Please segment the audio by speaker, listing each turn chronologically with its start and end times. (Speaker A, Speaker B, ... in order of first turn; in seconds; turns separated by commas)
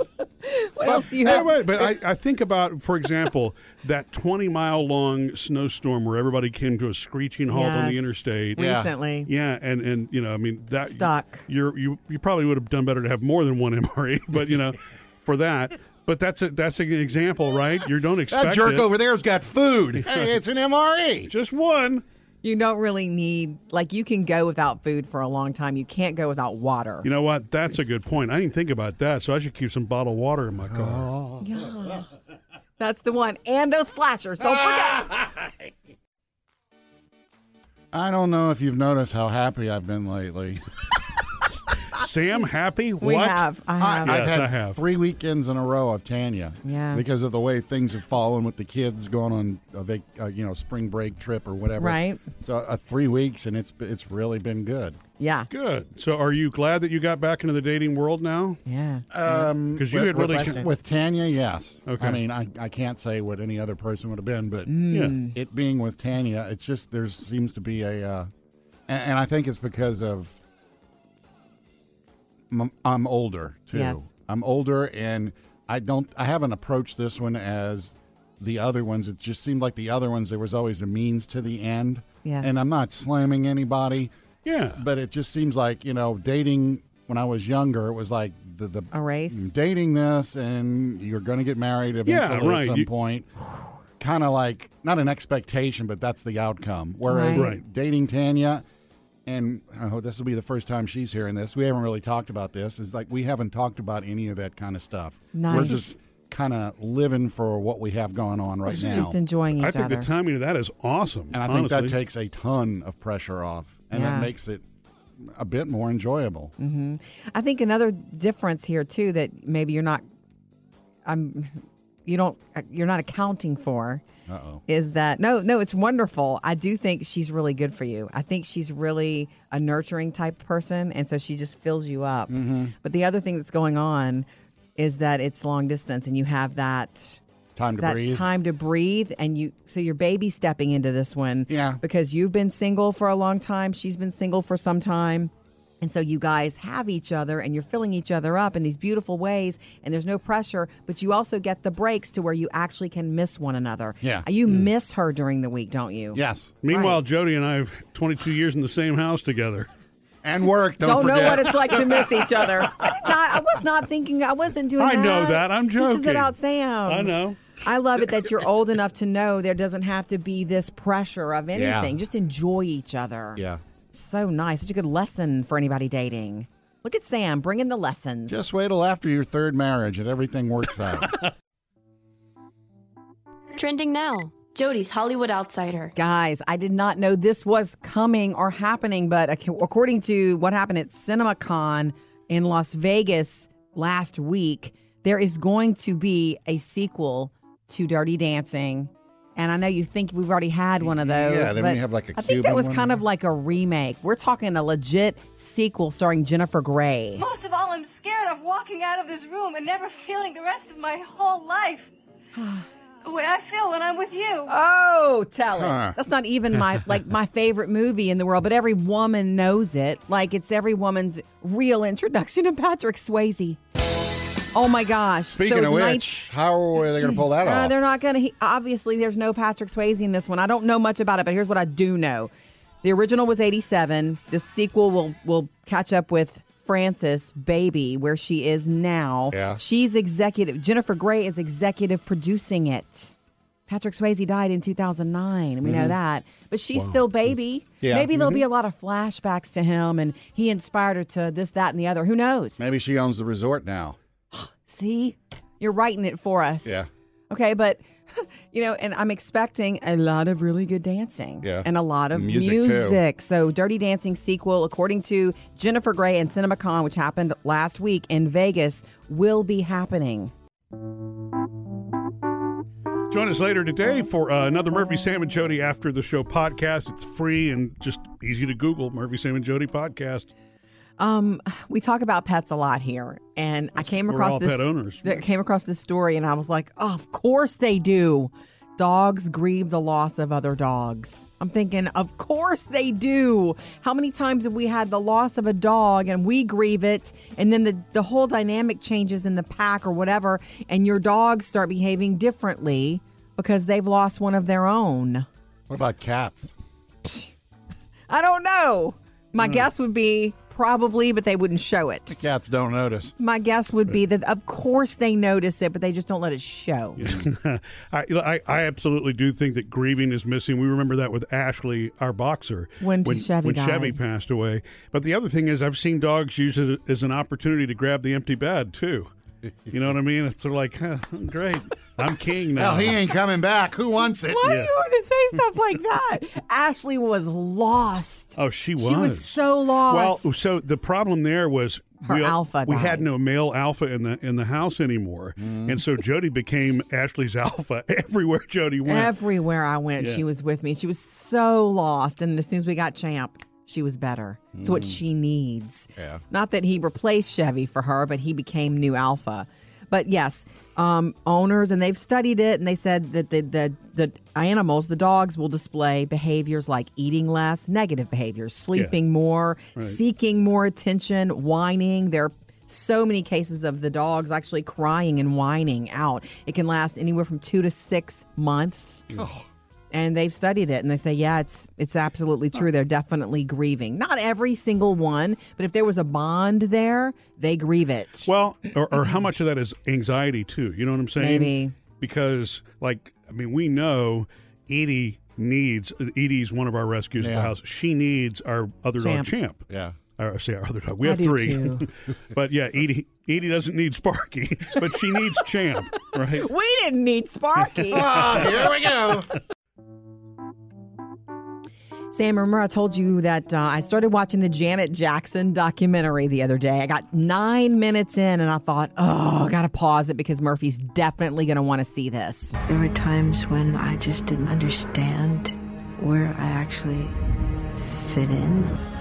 Speaker A: 0.4-1.9, Speaker B: 0.8-1.5, Speaker C: 1.0-8.6, Speaker A: 7.5-9.3, Speaker B: 8.6-8.9, Speaker C: 9.3-18.9, Speaker A: 10.8-11.4, Speaker B: 18.3-21.3, Speaker C: 20.0-20.3, Speaker C: 21.3-22.0, Speaker A: 22.4-27.1, Speaker C: 27.0-31.1, Speaker B: 30.7-31.7, Speaker A: 31.4-32.1, Speaker A: 32.8-35.1, Speaker B: 34.4-35.5, Speaker B: 37.9-40.6, Speaker C: 41.9-43.4, Speaker A: 43.0-44.2, Speaker B: 43.8-55.0, Speaker C: 44.0-44.8, Speaker A: 46.6-47.0, Speaker A: 51.8-52.2, Speaker A: 55.2-55.5, Speaker C: 55.5-58.6, Speaker A: 58.6-60.7, Speaker B: 59.1-68.3, Speaker C: 59.8-60.6, Speaker C: 61.9-62.2, Speaker A: 64.7-65.3, Speaker C: 64.9-65.2, Speaker B: 68.9-70.4, Speaker B: 72.5-84.1, Speaker A: 73.7-74.1, Speaker A: 82.2-82.5, Speaker C: 84.4-84.8, Speaker B: 84.8-93.3, Speaker A: 88.9-89.5, Speaker C: 92.0-92.9, Speaker B: 94.0-98.6, Speaker A: 97.1-97.5, Speaker C: 97.3-97.6, Speaker B: 99.2-109.1, Speaker A: 105.3-105.9, Speaker A: 108.7-110.1, Speaker C: 108.7-112.0, Speaker B: 111.3-114.6, Speaker A: 113.9-114.3, Speaker B: 115.2-116.5, Speaker A: 116.6-120.0, Speaker A: 121.0-124.0, Speaker B: 124.3-124.6, Speaker A: 124.7-134.2, Speaker B: 132.3-132.7, Speaker A: 134.8-137.2, Speaker B: 137.5-138.2, Speaker A: 137.8-157.0, Speaker B: 141.5-141.8, Speaker B: 156.1-156.5, Speaker C: 156.6-159.7, Speaker B: 160.2-162.2, Speaker A: 160.8-173.4, Speaker C: 164.8-166.3, Speaker C: 166.8-167.4, Speaker B: 171.5-172.0, Speaker B: 173.3-173.6, Speaker A: 173.9-178.4, Speaker B: 178.3-181.2, Speaker D: 183.5-185.9, Speaker A: 185.9-207.2, Speaker B: 200.8-203.0, Speaker E: 207.2-211.9, Speaker A: 212.4-212.6, Speaker E: 213.0-214.5, Speaker A: 214.5-223.6, Speaker B: 215.5-216.0, Speaker A: 224.5-226.1, Speaker B: 225.3-227.8, Speaker A: 227.0-232.3, Speaker A: 232.8-243.1, Speaker B: 239.3-239.6, Speaker A: 243.7-252.6, Speaker B: 245.6-246.0, Speaker B: 247.8-248.4, Speaker B: 252.6-254.0, Speaker A: 254.3-270.3, Speaker B: 261.4-263.0, Speaker C: 273.1-280.3, Speaker A: 281.0-305.3, Speaker C: 284.1-285.2, Speaker B: 305.7-306.5, Speaker A: 307.0-307.3, Speaker A: 308.1-312.1, Speaker B: 312.1-313.1, Speaker A: 313.2-317.0, Speaker C: 317.0-329.1, Speaker A: 322.8-324.0, Speaker C: 329.7-333.0, Speaker B: 332.6-334.6, Speaker A: 334.3-340.2, Speaker C: 334.4-334.7, Speaker C: 338.4-349.1, Speaker A: 342.0-343.1, Speaker B: 345.4-345.8, Speaker A: 348.8-379.1, Speaker C: 350.0-350.2, Speaker B: 354.5-355.0, Speaker B: 356.0-356.2, Speaker B: 379.1-379.4, Speaker A: 379.9-388.3, Speaker C: 388.2-399.6, Speaker A: 391.2-391.7, Speaker B: 397.2-397.5, Speaker A: 399.0-399.3, Speaker B: 399.7-400.0, Speaker C: 400.2-406.5, Speaker A: 401.0-401.9, Speaker A: 406.3-408.5, Speaker C: 407.6-408.6, Speaker B: 407.9-409.3, Speaker A: 412.1-422.5, Speaker F: 422.6-427.2, Speaker F: 427.8-428.8